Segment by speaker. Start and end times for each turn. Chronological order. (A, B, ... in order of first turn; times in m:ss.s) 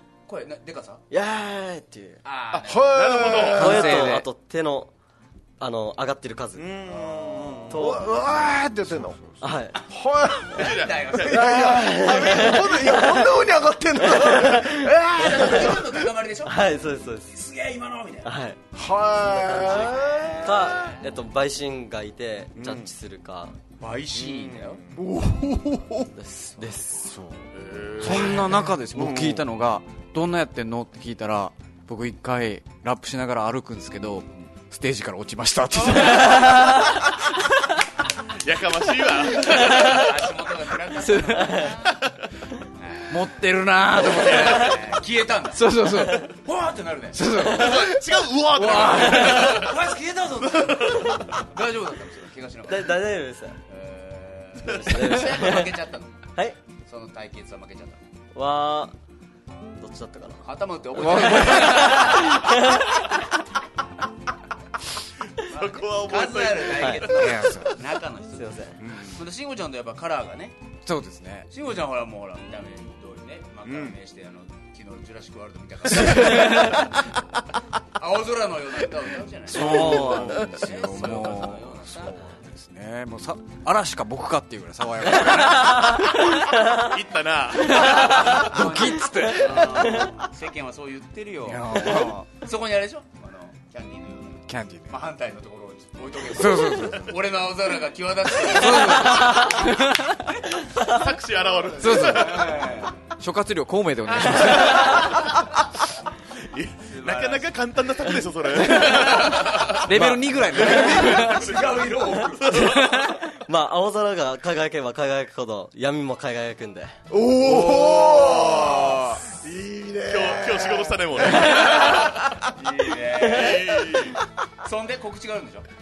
0:00.3-0:01.0 A
0:01.1-0:02.2 B
0:02.2-0:04.2 A
0:02.5-0:04.1 C
0:02.7-0:04.0 D
0:03.5-0:04.9 B
0:03.6-0:04.2 E
0:05.6-0:08.2 B
0:06.6-0:08.0 C
0:07.7-0:09.2 D
0:08.2-0:09.5 E
0:09.4-0:09.8 B
0:09.9-0:10.7 D
0:10.5-0:11.6 C
0:10.5-0:12.4 A
0:11.2-0:16.0 D
0:11.6-0:13.3 B
0:14.0-0:15.6 B
0:15.2-0:16.6 A
0:16.4-0:17.3 B
0:17.3-0:18.3 A
0:18.2-0:18.6 B
0:18.7-0:20.9 D
0:19.4-0:23.5 B
0:19.7-0:20.1 A
0:22.6-0:22.9 C
0:23.8-0:24.8 A
0:24.1-0:25.0 C
0:25.0-0:26.1 D
0:26.1-0:27.1 B
0:27.0-0:27.4 E
0:27.5-0:29.4 C
0:28.0-0:37.4 E
0:38.4-0:40.2 C
0:39.7-0:42.0 A
0:41.2-0:41.7 B
0:42.8-0:43.2 A
0:43.1-0:44.8 E
0:43.8-0:45.6 A
0:45.5-0:46.3 E
0:46.2-0:47.2 A
0:47.1-0:48.0 E
0:47.4-0:49.8 C
0:48.5-0:49.3 E
0:48.6-0:53.0 A
0:50.4-0:51.3 C
0:52.7-0:53.6 B
0:53.7-0:56.3 A
0:54.6-0:55.7 B
0:56.8-0:58.0 A
0:58.3-0:58.9 B
0:59.8-1:00.4 B
1:00.4-1:02.6 A
1:01.0-1:02.1 E
1:01.0-1:02.9 B
1:05.4-1:07.1 C
1:05.5-1:10.6 A
1:06.8-1:07.0 B
1:07.1-1:07.7 E
1:08.3-1:08.8 B
1:08.8-1:09.2 C
1:10.8-1:11.5 E
1:11.5-1:17.0 A
1:13.6-1:13.9 C
1:18.0-1:22.3 A
1:19.5-1:26.2 E
1:19.6-1:20.4 C
1:19.6-1:20.3 B
1:26.7-1:28.5 C
1:27.8-1:30.1 E
1:27.8-1:39.4 A
1:31.5-1:32.3 E
1:34.5-1:35.0 E
1:36.3-1:37.2 E
1:38.4-1:40.3 E
1:40.8-1:42.5 C
1:41.8-1:42.6 E
1:42.0-1:43.0 A
1:43.2-1:45.2 E
1:44.2-1:45.2 A
1:46.5-1:53.0 C
1:46.8-1:47.5 A
1:48.6-1:49.8 A
1:48.8-1:49.3 E
1:49.8-1:51.4 E
1:49.9-1:50.2 B
1:50.6-1:52.7 A
1:53.3-1:57.0 B
1:57.1-2:02.1 D
1:57.6-1:59.2 C
2:00.1-2:02.2 C
2:01.5-2:03.7 A
2:03.2-2:04.2 C
2:03.2-2:03.6 B
2:04.6-2:05.6 A